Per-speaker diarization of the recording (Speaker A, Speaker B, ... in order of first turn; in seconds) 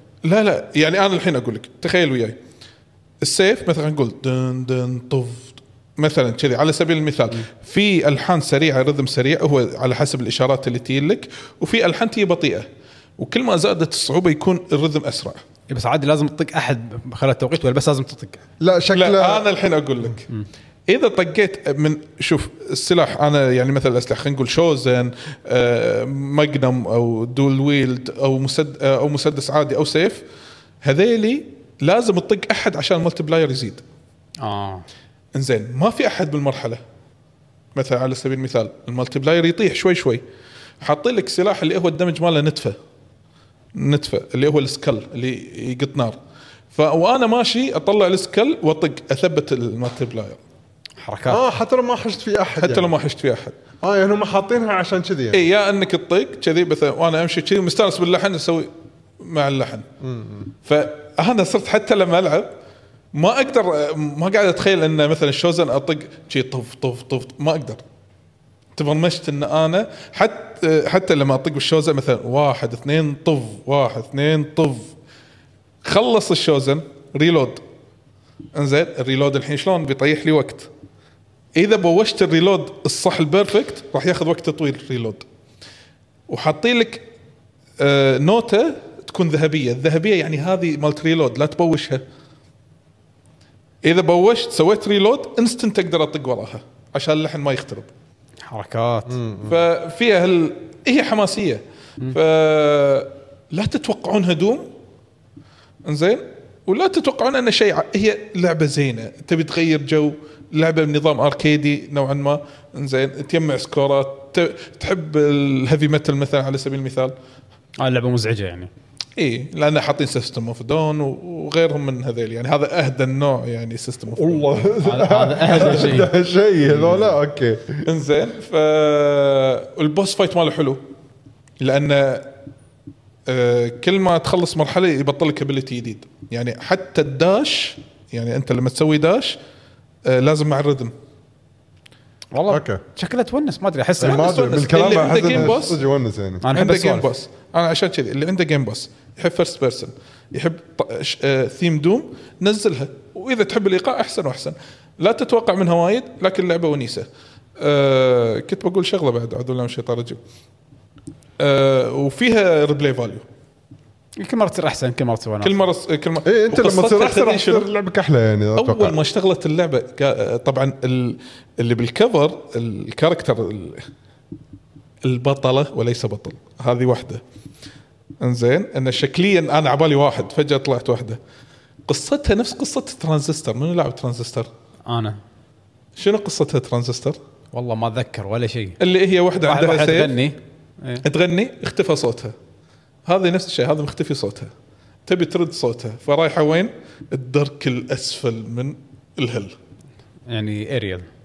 Speaker A: 0.2-2.4, 3.2-12.7, 13.2-15.4, 18.9-20.3, 20.9-30.2, 30.8-33.8, 35.4-36.8, 37.8-40.2, 40.8-42.8, 43.8-46.2, 46.7-50.4, 52.6-53.6, 55.3-58.7, 59.2-59.9, 60.6-62.5, 63.1-67.8, 68.8-74.9, 75.8-77.6, 78.5-80.7, 81.6-85.3, 86.3-87.1, 87.8-92.0, 93.8-97.9, 99.5-104.7, 105.9-117.1, 119.2-124.5, 127.8-130.8, 131.6-132.3, 133.3-139.4, 140.1-140.9, 144.0-145.8, 146.5-157.1, 157.6-160.2, 161.4-163.2, 165.4-167.7, 168.6-173.8, 175.0-177.2, 178.2-181.2, 181.9-184.5, 186.0-187.2, 188.8-190.2, 191.0-192.3, 193.1-194.5, 195.1-199.6
Speaker B: 15.7-18.4, 34.4-34.9, 51.0-51.4, 98.5-99.2, 117.8-118.7, 124.8-126.1, 126.6-127.1, 142.3-144.6, 146.4-147.1, 164.2-165.5, 184.9-185.2, 187.5-188.8, 189.4-191.0, 200.3-201.1
Speaker C: 18.6-19.5, 51.3-52.9, 53.8-55.5, 60.0-60.5, 99.1-99.5, 124.1-127.8, 142.5-142.8, 144.0-146.4, 166.2-169.0